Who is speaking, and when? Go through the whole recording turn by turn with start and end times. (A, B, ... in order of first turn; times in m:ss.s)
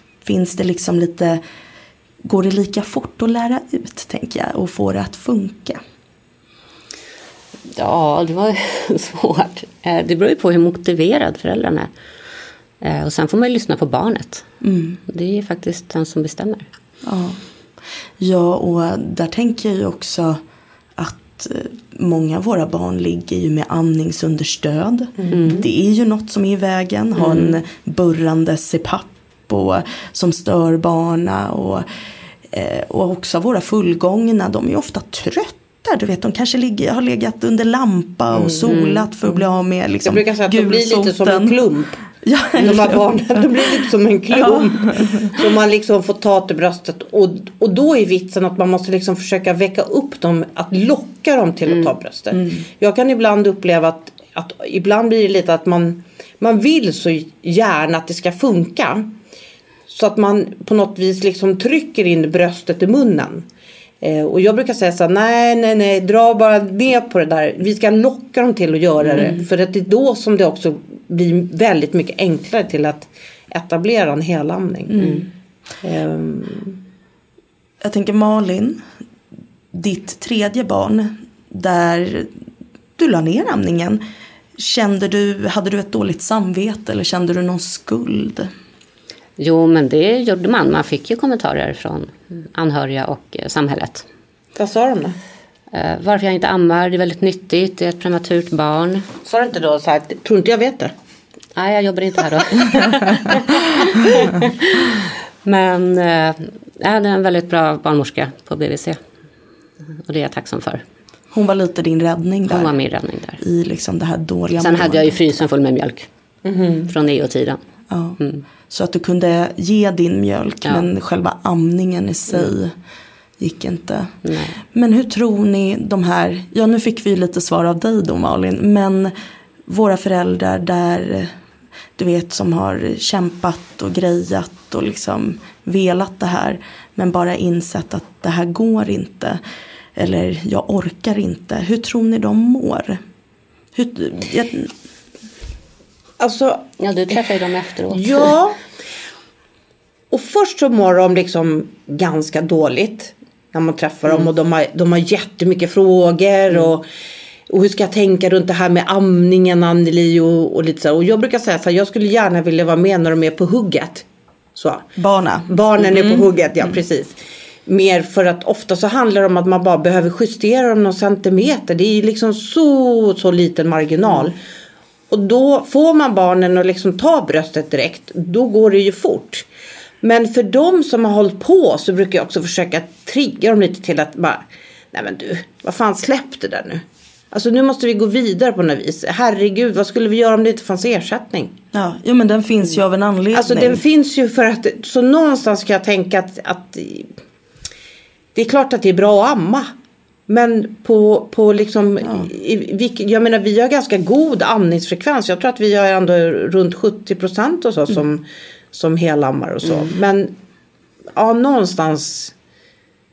0:00.2-0:01.4 A
0:02.2-0:05.8 A
0:07.7-0:11.9 B
0:12.8-0:14.5 B
0:14.6-0:15.0 A
0:15.0-0:16.7 B
0:17.0-0:17.4 A
0:18.2-0:20.4 A
0:21.0-0:31.8 A
0:25.2-0:25.6 C
0:25.3-0:25.6 B
0:32.5-0:41.6 A
0:38.3-0:38.8 C
0:38.7-0:39.1 B
0:40.0-0:42.0 C
0:42.2-0:43.5 A
0:42.6-0:59.1 C
0:44.3-0:45.4 A
0:52.3-0:52.6 A
0:59.9-1:03.4 C
1:04.0-1:15.2 C
1:14.9-1:15.3 A
1:15.8-1:16.8 C
1:17.8-1:18.8 A
1:19.7-1:22.3 A
1:23.0-1:24.0 A
1:24.6-1:28.5 A
1:29.4-1:34.0 B
1:34.6-1:35.2 C
1:35.7-1:39.1 B
1:39.2-1:40.9 C
1:41.6-1:49.0 B
1:50.0-1:50.8 B
1:51.3-1:52.7 A
1:52.5-1:53.4 B
1:53.4-1:55.2 A
1:54.6-1:56.1 B
1:56.4-1:56.9 C
1:56.8-1:57.6 B
1:57.9-2:02.7 A
2:03.4-2:09.1 A
2:04.2-2:04.6 B
2:09.7-2:11.3 A
2:12.0-2:19.4 A
2:20.0-2:23.0 A
2:23.7-2:24.7 A
2:26.2-2:27.2 C
2:26.8-2:28.3 B
2:27.9-2:28.6 C
2:30.1-2:36.8 C
2:37.5-2:44.0 C
2:44.6-2:44.8 C
2:45.0-2:46.8 A
2:45.5-2:54.4 C
2:55.1-2:59.4 C
3:00.0-3:11.6 C
3:11.7-3:13.8 A
3:13.3-3:17.1 C
3:18.3-3:19.7 C
3:20.3-3:30.3 C
3:22.0-3:22.3 A
3:31.2-3:32.3 C